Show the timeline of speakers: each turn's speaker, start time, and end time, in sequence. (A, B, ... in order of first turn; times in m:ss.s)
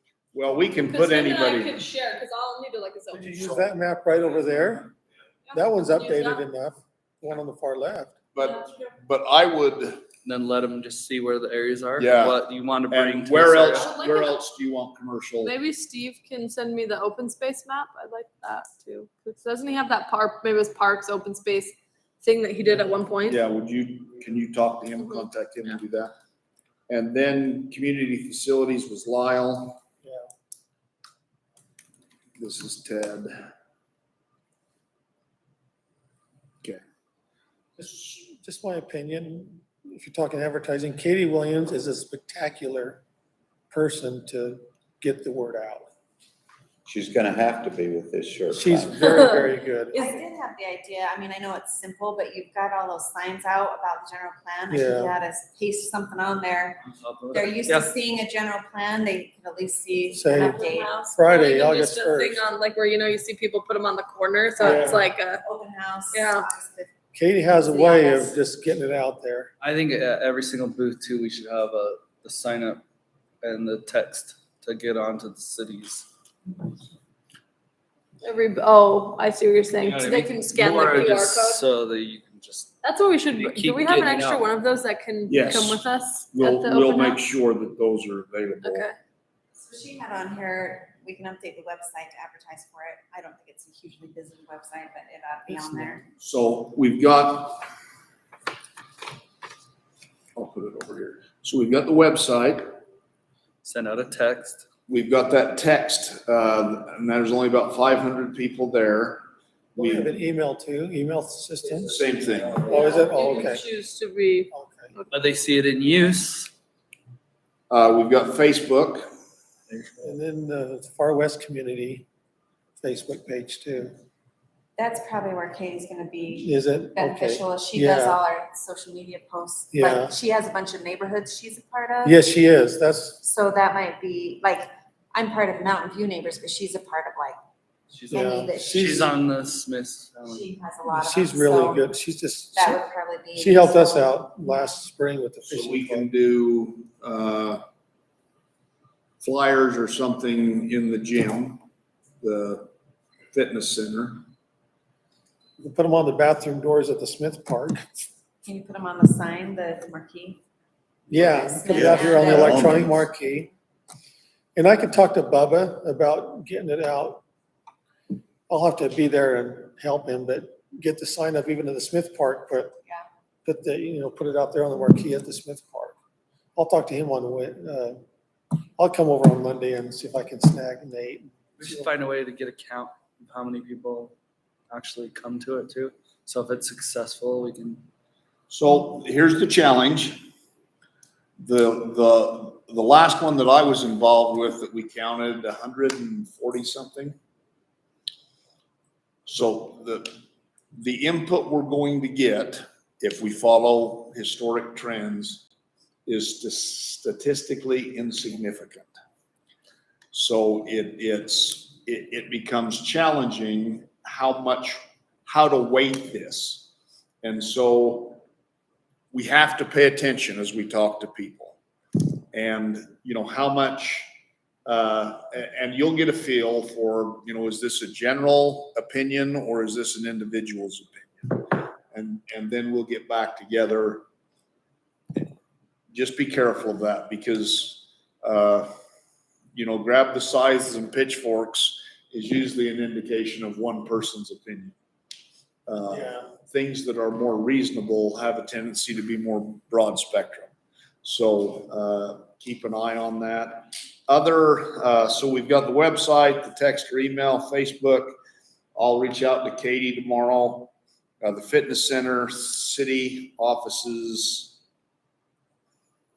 0:00.3-0:01.8 A
0:00.8-0:03.5 B
0:03.1-0:04.9 C
0:05.5-0:06.4 B
0:05.5-0:08.2 C
0:08.3-0:10.0 A
0:08.4-0:08.8 B
0:10.2-0:13.9 D
0:12.0-0:15.5 A
0:13.7-0:14.4 B
0:15.4-0:23.4 B
0:22.6-0:23.0 C
0:23.3-0:26.1 A
0:26.9-0:29.8 A
0:32.4-0:33.5 A
0:37.8-0:43.0 C
0:43.7-0:45.9 C
0:46.8-0:49.3 E
0:48.5-0:50.0 C
0:49.9-0:56.8 F
0:54.7-0:55.2 C
0:56.8-0:57.9 D
0:57.3-1:01.0 F
1:00.1-1:02.4 C
1:00.2-1:05.4 B
1:04.6-1:05.0 C
1:05.4-1:06.9 F
1:06.1-1:06.5 B
1:07.1-1:09.5 C
1:07.6-1:08.4 F
1:09.6-1:12.8 D
1:13.4-1:16.1 D
1:18.2-1:21.6 B
1:19.8-1:22.7 D
1:22.8-1:27.3 B
1:23.3-1:24.4 D
1:25.3-1:28.9 A
1:28.6-1:29.0 B
1:29.6-1:36.0 F
1:36.2-1:37.6 A
1:40.3-1:42.7 A
1:43.6-1:44.6 D
1:44.9-1:49.2 A
1:49.8-1:53.6 C
1:49.8-1:50.1 A
1:51.9-1:52.7 A
1:52.7-1:55.1 B
1:54.5-1:54.9 C
1:55.1-1:56.5 D
1:57.7-1:59.1 A
2:00.0-2:02.0 C
2:02.8-2:03.9 C
2:04.8-2:12.2 F
2:06.4-2:08.2 C
2:09.7-2:10.2 C
2:12.0-2:13.2 C
2:13.2-2:17.4 F
2:17.9-2:20.5 D
2:18.1-2:19.2 C
2:18.1-2:19.1 F
2:20.2-2:21.8 F
2:20.8-2:22.8 C
2:22.6-2:24.1 F
2:23.4-2:26.1 C
2:25.5-2:27.6 A
2:29.2-2:31.6 A
2:32.2-2:32.7 A
2:33.3-2:34.2 A
2:35.6-2:37.8 C
2:38.4-2:40.4 F
2:41.1-2:43.5 C
2:41.1-2:42.8 F
2:41.6-2:43.1 E
2:44.5-2:47.2 C
2:48.5-2:52.8 C
2:53.4-2:56.0 C
2:56.5-2:58.0 C
2:58.8-3:01.9 C
3:01.6-3:04.1 D
3:04.7-3:07.8 D
3:08.5-3:10.2 A
3:11.4-3:17.2 A
3:19.2-3:20.1 A
3:20.7-3:25.4 A
3:26.0-3:28.9 A
3:30.1-3:36.7 A
3:37.2-3:38.2 A
3:39.1-3:41.6 A
3:42.3-3:44.1 A
3:44.6-3:54.0 A
3:55.9-3:58.7 A
3:59.5-4:04.8 A
4:05.6-4:10.5 A
4:05.9-4:06.3 C
4:11.0-4:18.1 A
4:18.7-4:24.6 A